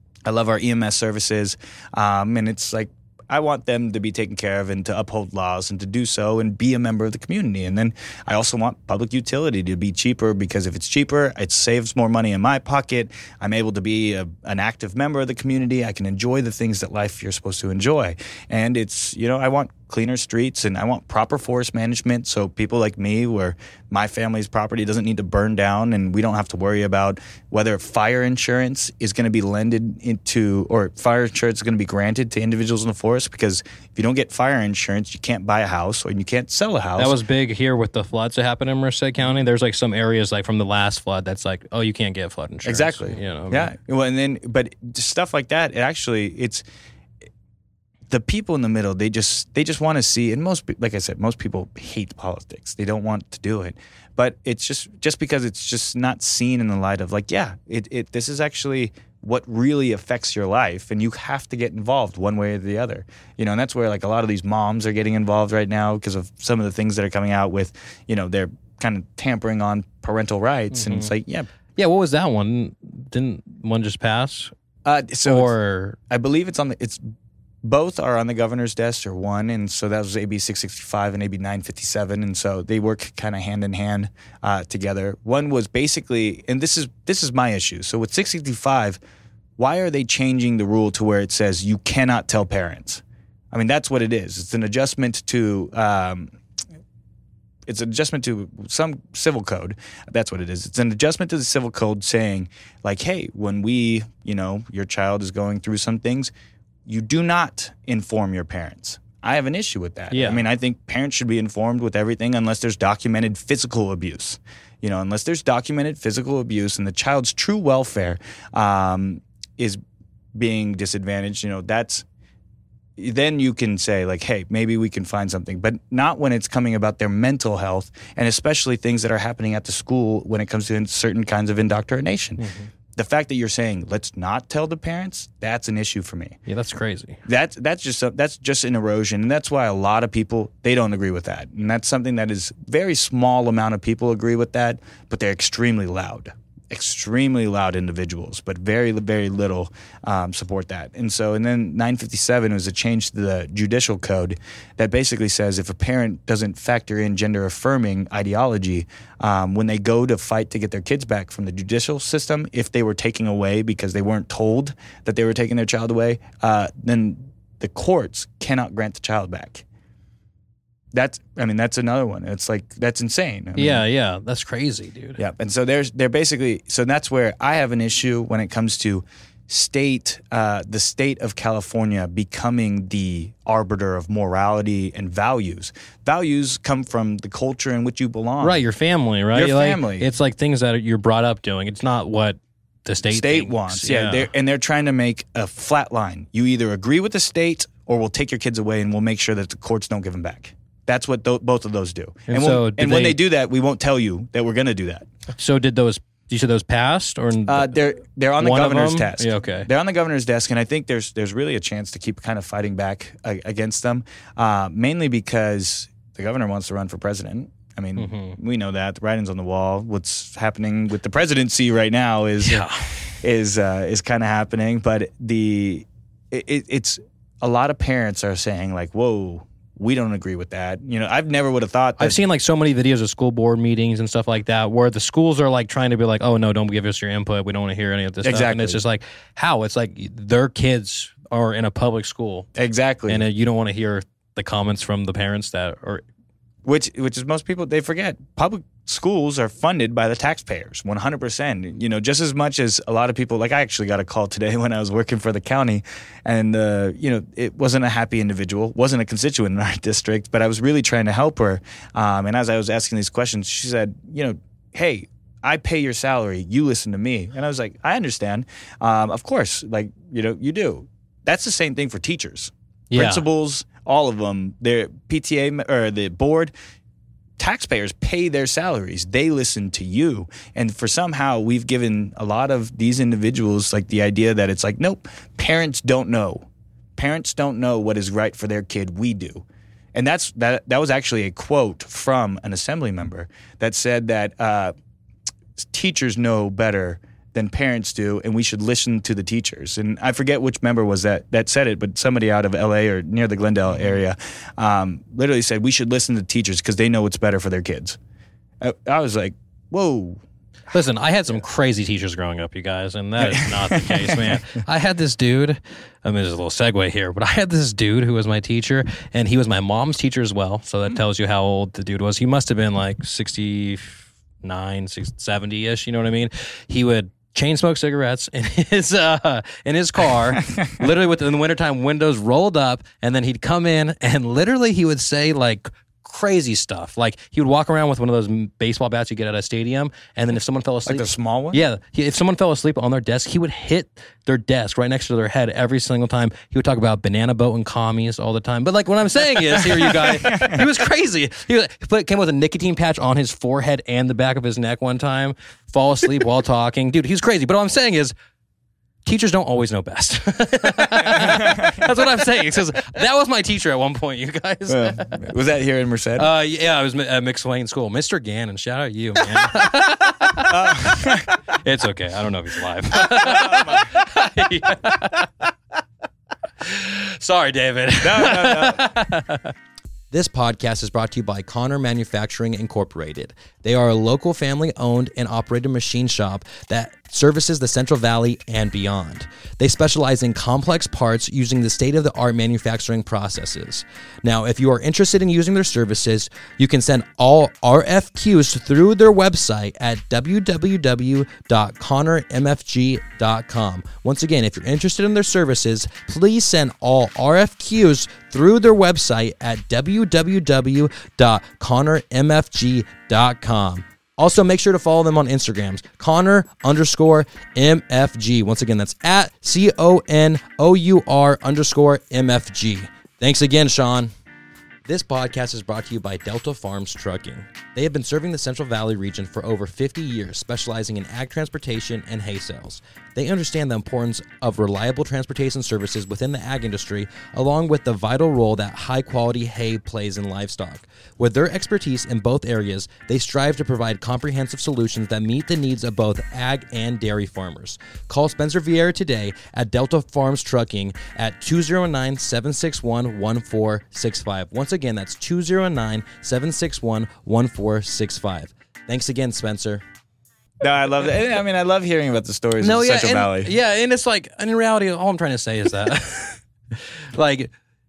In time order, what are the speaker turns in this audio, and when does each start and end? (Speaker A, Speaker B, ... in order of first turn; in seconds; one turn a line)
Speaker A: 0.3-37.2
Speaker B: 37.0-43.7
Speaker A: 42.6-46.6
Speaker A: 48.1-71.5
Speaker B: 70.7-71.1
Speaker B: 71.8-74.5
Speaker A: 74.8-75.5
Speaker B: 75.3-76.0
Speaker A: 76.1-77.0
Speaker A: 77.6-89.0
Speaker A: 89.6-96.3
Speaker A: 97.7-106.3
Speaker A: 106.9-119.8
Speaker B: 110.1-110.5
Speaker A: 120.4-122.0
Speaker A: 123.0-136.4
Speaker B: 132.4-132.7
Speaker B: 136.5-137.2
Speaker A: 137.3-169.7
Speaker A: 170.9-173.8
Speaker B: 173.6-175.2
Speaker A: 175.2-188.6
Speaker B: 188.4-194.3
Speaker A: 189.3-190.1
Speaker A: 193.1-205.1
Speaker B: 202.3-203.2
Speaker B: 205.4-207.8
Speaker A: 207.5-232.2
Speaker B: 208.4-209.7
Speaker B: 218.0-218.4
Speaker B: 222.4-223.0
Speaker B: 232.0-242.5
Speaker A: 238.2-238.8
Speaker A: 242.6-243.2
Speaker B: 243.1-246.0
Speaker A: 246.7-276.5
Speaker B: 272.9-273.2
Speaker A: 277.4-294.7
Speaker A: 295.6-308.0
Speaker A: 308.6-310.2
Speaker B: 310.7-358.1
Speaker A: 313.2-314.6
Speaker A: 340.9-341.6
Speaker A: 349.7-350.6
Speaker B: 359.1-365.3
Speaker A: 361.0-362.0
Speaker A: 364.7-366.3
Speaker B: 366.2-375.5
Speaker A: 370.5-371.4
Speaker A: 373.0-374.0
Speaker B: 376.6-379.5
Speaker A: 378.0-378.9
Speaker B: 380.1-424.1
Speaker B: 424.9-459.8
Speaker A: 460.6-463.5
Speaker B: 462.6-467.5